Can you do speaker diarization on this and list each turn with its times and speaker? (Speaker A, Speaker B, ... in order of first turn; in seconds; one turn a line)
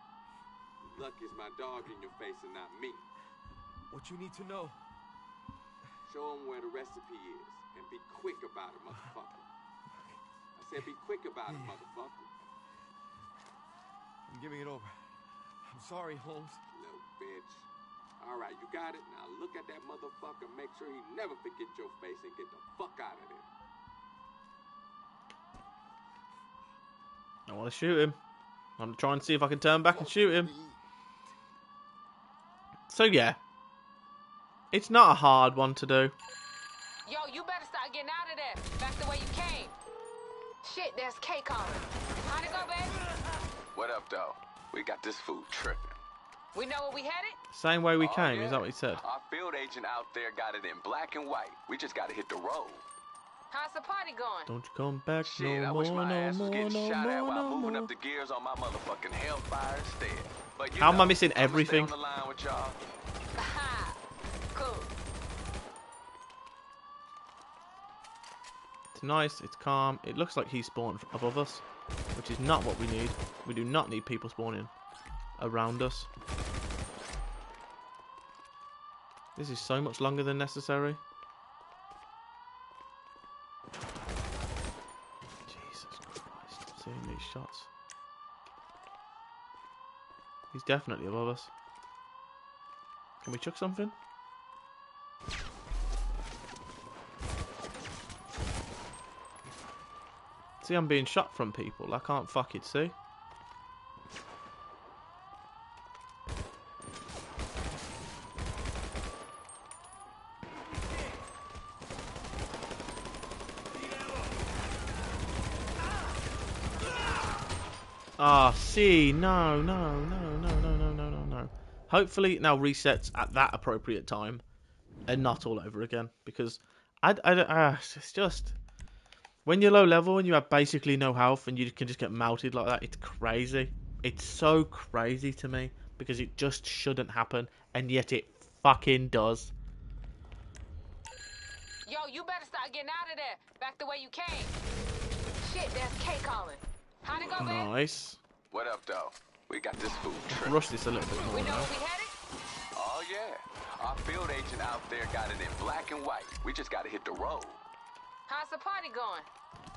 Speaker A: 0.8-3.0
Speaker B: 3.9-4.8
Speaker A: 6.0-9.5
Speaker A: 10.6-12.3
Speaker B: 14.3-16.6
Speaker A: 16.7-17.6
Speaker A: 18.2-23.5
Speaker C: 27.5-28.2
Speaker C: 28.8-30.5
Speaker C: 32.9-33.4
Speaker C: 34.7-36.1
Speaker D: 37.0-39.7
Speaker D: 40.6-43.0
Speaker A: 43.7-46.0
Speaker D: 46.5-47.4
Speaker C: 47.5-49.0
Speaker A: 48.0-52.8
Speaker D: 53.5-54.5
Speaker C: 54.5-57.9
Speaker A: 55.2-62.8
Speaker C: 60.8-61.9
Speaker D: 63.4-64.0
Speaker D: 64.5-64.9
Speaker C: 68.9-71.6
Speaker C: 72.1-74.7
Speaker C: 75.4-76.1
Speaker C: 79.3-81.0
Speaker C: 85.5-87.7
Speaker C: 90.5-91.5
Speaker C: 93.2-93.9
Speaker C: 100.6-102.9
Speaker C: 118.2-124.4
Speaker C: 125.1-128.6
Speaker C: 129.4-139.5
Speaker D: 141.8-144.5
Speaker D: 145.4-147.7
Speaker C: 147.4-148.2
Speaker A: 148.5-150.6
Speaker C: 150.3-151.7
Speaker D: 151.2-152.1
Speaker A: 152.7-157.6
Speaker D: 158.3-159.3